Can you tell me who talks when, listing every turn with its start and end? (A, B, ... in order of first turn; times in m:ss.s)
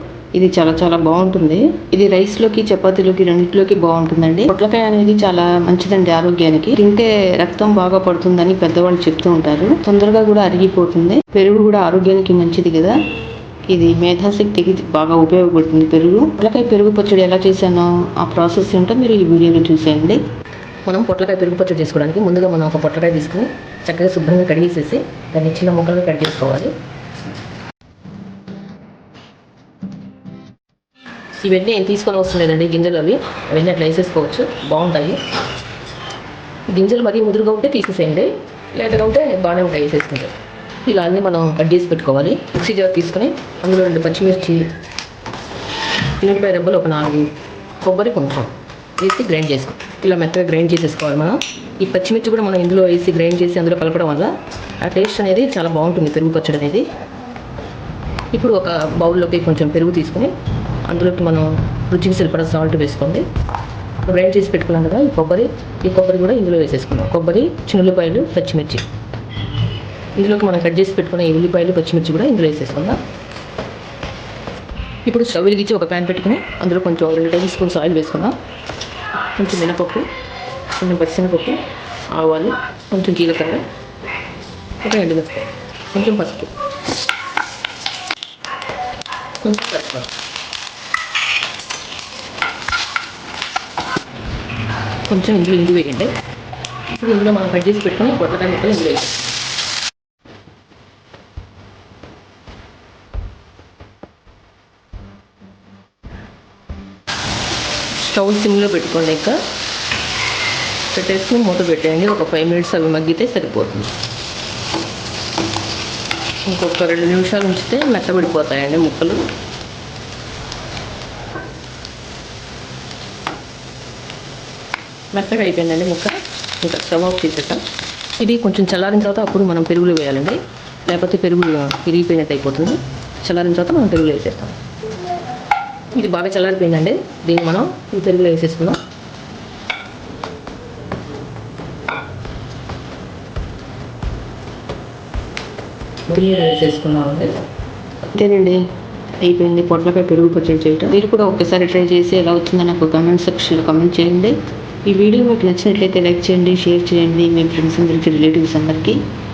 0:00.3-0:13.0 A
0:13.7-0:20.2 A
0:20.8-0:26.7 A
0:31.4-0:35.2 A
0:36.7-0:40.3 A
0:40.8-0:44.6 A
0:46.2-0:47.3 A
0:47.8-0:56.8 A
0:58.3-1:00.3 A
1:00.8-1:03.2 A
1:04.0-1:08.8 A
1:10.2-1:13.0 A
1:15.0-1:18.4 A
1:19.3-1:20.1 A
1:20.8-1:21.6 A
1:22.1-1:23.6 A
1:24.8-1:26.5 A
1:29.4-1:30.1 A
1:35.1-1:36.1 A
1:36.9-1:39.2 A
1:48.0-1:49.4 A
1:50.9-1:53.9 A
1:56.5-1:59.2 A
2:05.1-2:07.6 A
2:08.2-2:14.5 A
2:15.9-2:18.8 A
2:26.1-2:27.3 A
2:28.0-2:28.6 A
2:29.2-2:39.0 A